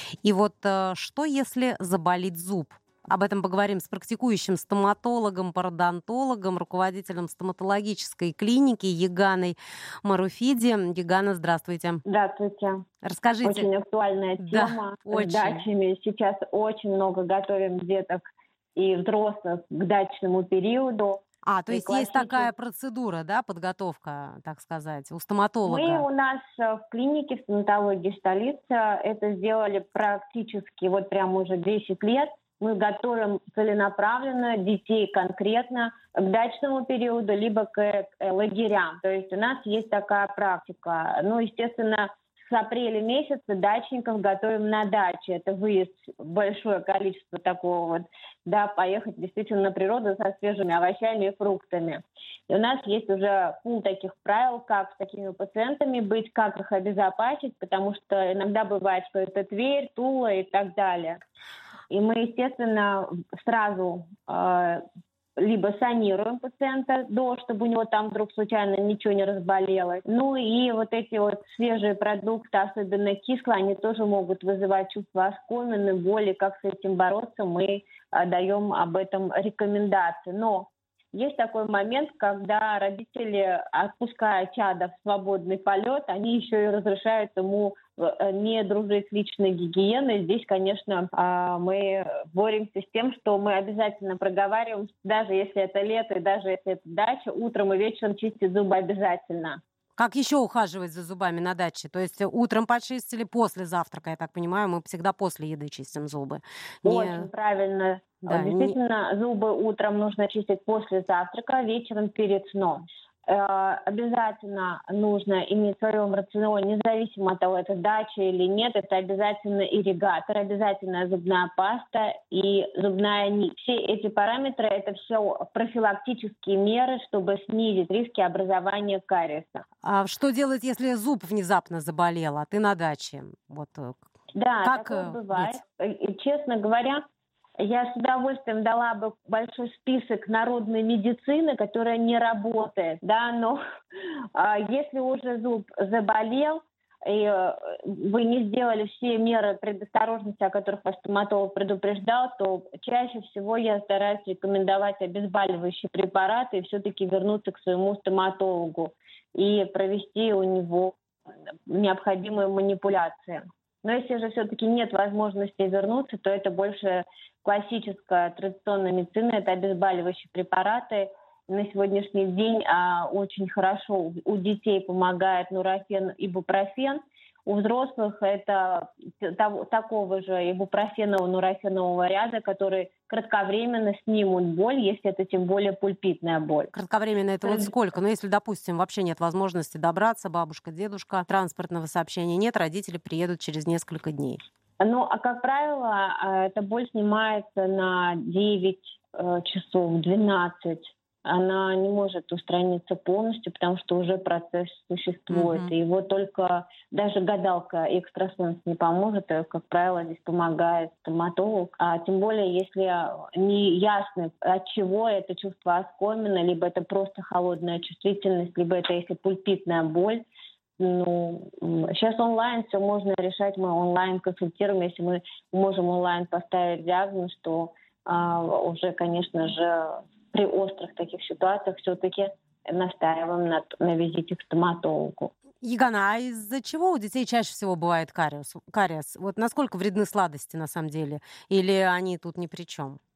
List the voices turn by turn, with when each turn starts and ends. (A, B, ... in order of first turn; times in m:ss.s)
0:00.2-0:12.0 A
0:12.0-0:12.8 B
0:13.0-0:13.7 A
0:13.4-0:18.2 B
0:14.4-0:15.6 A
0:18.7-0:22.5 B
0:21.4-0:26.0 A
0:25.7-1:01.2 B
1:01.9-1:04.8 B
1:05.4-1:39.6 B
1:40.0-1:47.3 A
1:46.8-2:09.6 B
1:48.3-1:48.7 A
2:09.8-2:14.0 A
2:14.3-2:17.0 B
2:14.6-2:15.6 A
2:17.6-2:23.6 B
2:24.3-2:41.0 B
2:41.7-3:06.7 B
3:06.7-3:14.4 A
3:07.4-3:07.7 B
3:14.8-3:40.2 B
3:25.3-3:25.7 A
3:40.8-3:55.3 B
3:55.6-4:03.0 A